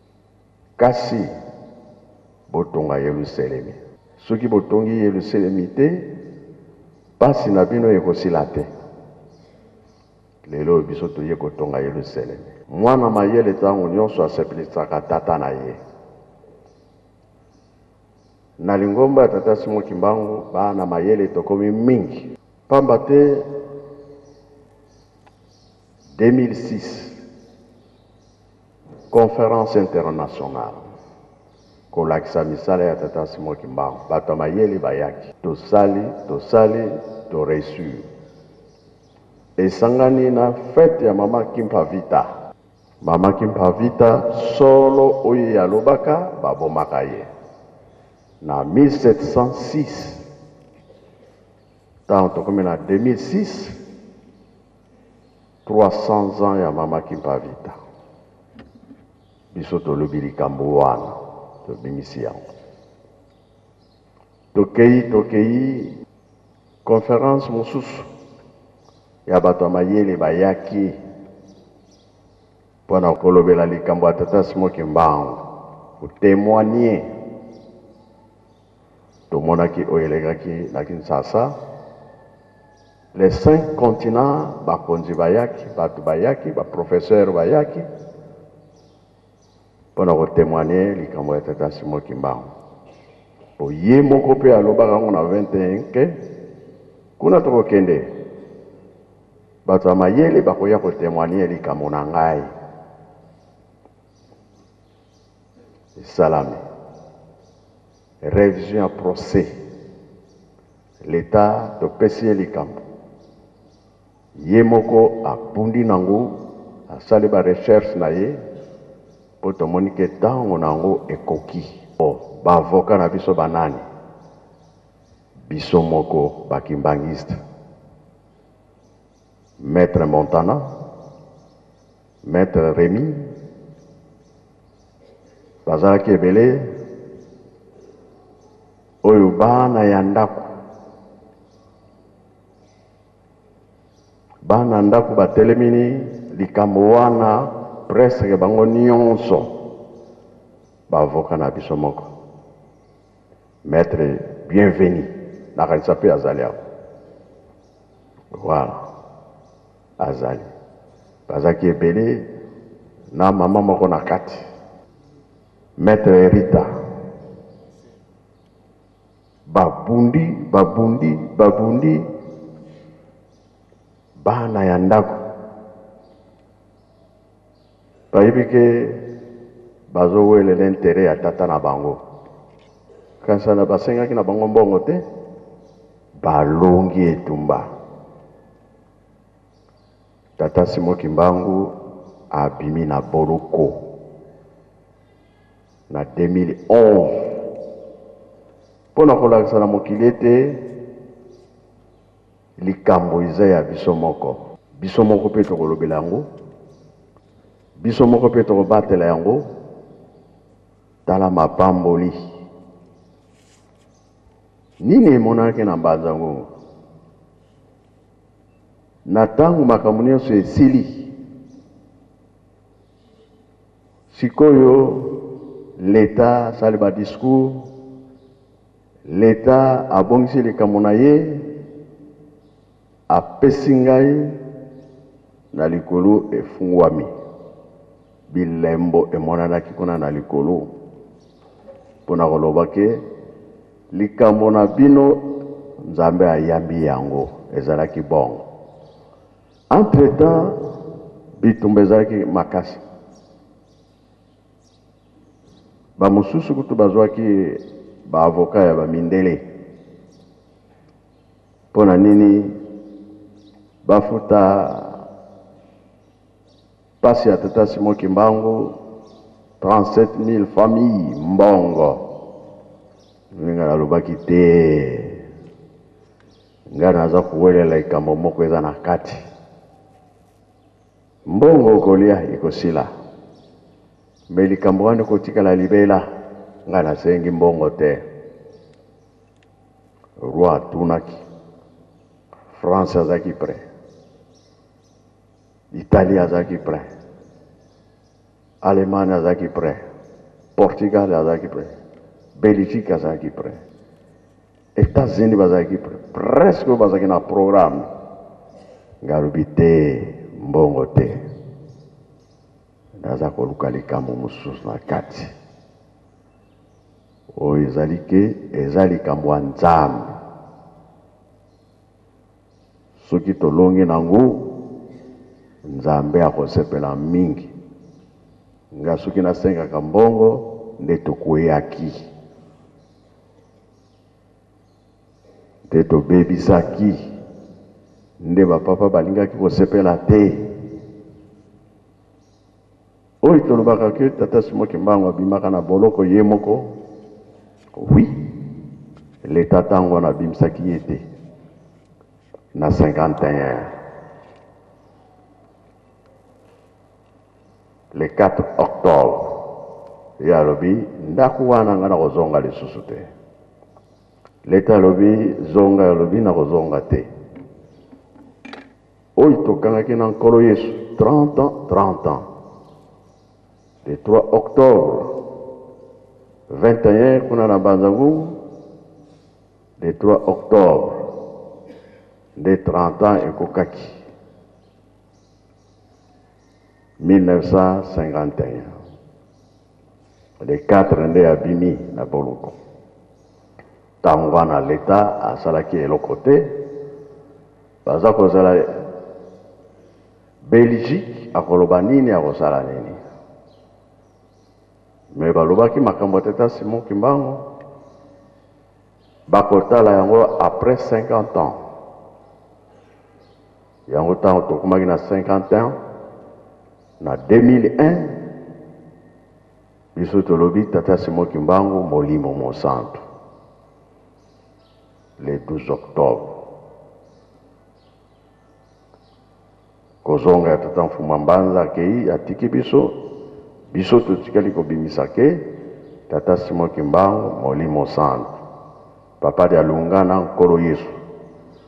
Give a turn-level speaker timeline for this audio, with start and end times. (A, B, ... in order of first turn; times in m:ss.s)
0:00.8-0:01.3 A
0:02.5-0:06.1 A
0:07.2-0:08.7 A
0:10.4-0:15.8 A
0:18.6-0:23.5 A
0:26.2-0:27.2 A
0:29.1-0:30.8 A
0:31.9-0:38.0 A
0:39.6-0:42.3 A
0:43.0-0:47.3 A
0:48.4-0:50.2 A
0:52.1-0:53.8 A
0:55.6-0:57.8 A
0:59.5-1:02.4 A
1:04.5-1:06.0 A
1:06.8-1:08.1 A
1:09.3-1:11.0 A
1:12.9-1:15.4 A
1:16.0-1:17.1 A
1:19.3-1:21.6 A
1:23.1-1:27.9 A
1:30.0-1:32.5 A
1:33.6-1:36.2 A
1:37.2-1:38.1 A
1:39.6-1:42.5 A
1:46.0-1:46.6 A
1:48.2-1:49.5 A
1:51.0-1:52.8 A
1:54.4-1:58.4 A
1:59.4-2:03.8 A
2:05.5-2:07.4 A
2:09.6-2:10.7 A
2:12.2-2:13.3 A
2:15.6-2:16.7 A
2:19.0-2:20.5 A
2:24.4-2:29.6 A
2:30.9-2:32.1 A
2:33.6-2:36.6 A
2:38.3-2:38.8 A
2:40.0-2:40.5 A
2:41.3-2:42.3 A
2:43.1-2:44.4 A
2:45.8-2:46.7 A
2:49.5-2:52.1 A
2:54.2-2:55.2 A
2:58.1-2:59.0 A
2:59.9-3:02.0 A
3:03.2-3:05.0 A
3:06.2-3:07.7 A
3:10.4-3:11.8 A
3:12.3-3:13.8 A
3:15.9-3:17.4 A
3:18.9-3:20.6 A
3:22.6-3:26.3 A
3:27.8-3:29.5 A
3:31.0-3:32.2 A
3:34.8-3:36.5 A
3:39.1-3:41.1 A
3:44.1-3:45.2 A
3:45.8-3:47.7 A
3:49.1-3:51.5 A
3:53.1-3:54.4 A
3:55.5-3:57.1 A
3:58.3-4:00.7 A
4:02.0-4:03.0 A
4:03.9-4:08.4 A
4:09.7-4:10.6 A
4:11.4-4:12.8 A
4:16.0-4:19.4 A
4:21.7-4:22.6 A
4:23.8-4:25.0 A
4:27.0-4:28.8 A
4:29.6-4:32.1 A
4:33.3-4:35.2 A
4:36.7-4:39.2 A
4:41.2-4:42.9 A
4:44.3-4:46.1 A
4:46.6-4:48.0 A
4:50.2-4:51.2 A
4:52.5-4:53.6 A
4:55.7-4:56.9 A
4:58.6-4:59.8 A
5:00.6-5:01.7 A
5:02.4-5:03.6 A
5:04.8-5:07.9 A
5:09.0-5:11.2 A
5:13.0-5:15.3 A
5:17.3-5:20.2 A
5:23.0-5:24.6 A
5:25.6-5:27.5 A
5:28.7-5:32.1 A
5:35.7-5:37.1 A
5:38.2-5:40.5 A
5:43.2-5:46.8 A
5:47.8-5:48.2 A
5:49.2-5:51.0 A
5:52.5-5:53.7 A
5:57.9-5:59.4 A
6:00.2-6:03.1 A
6:04.4-6:07.1 A
6:09.2-6:12.2 A
6:13.8-6:15.2 A
6:16.5-6:18.4 A
6:19.8-6:21.1 A
6:22.4-6:24.0 A
6:27.0-6:28.7 A
6:30.4-6:32.6 A
6:34.0-6:36.6 A
6:37.8-6:38.7 A
6:40.4-6:43.0 A
6:45.1-6:47.4 A
6:49.3-6:51.6 A
6:53.9-6:55.7 A
6:57.0-6:58.2 A
7:00.0-7:03.0 A
7:05.2-7:06.4 A
7:10.0-7:13.0 A
7:13.7-7:15.5 A
7:16.1-7:18.3 A
7:19.2-7:21.0 A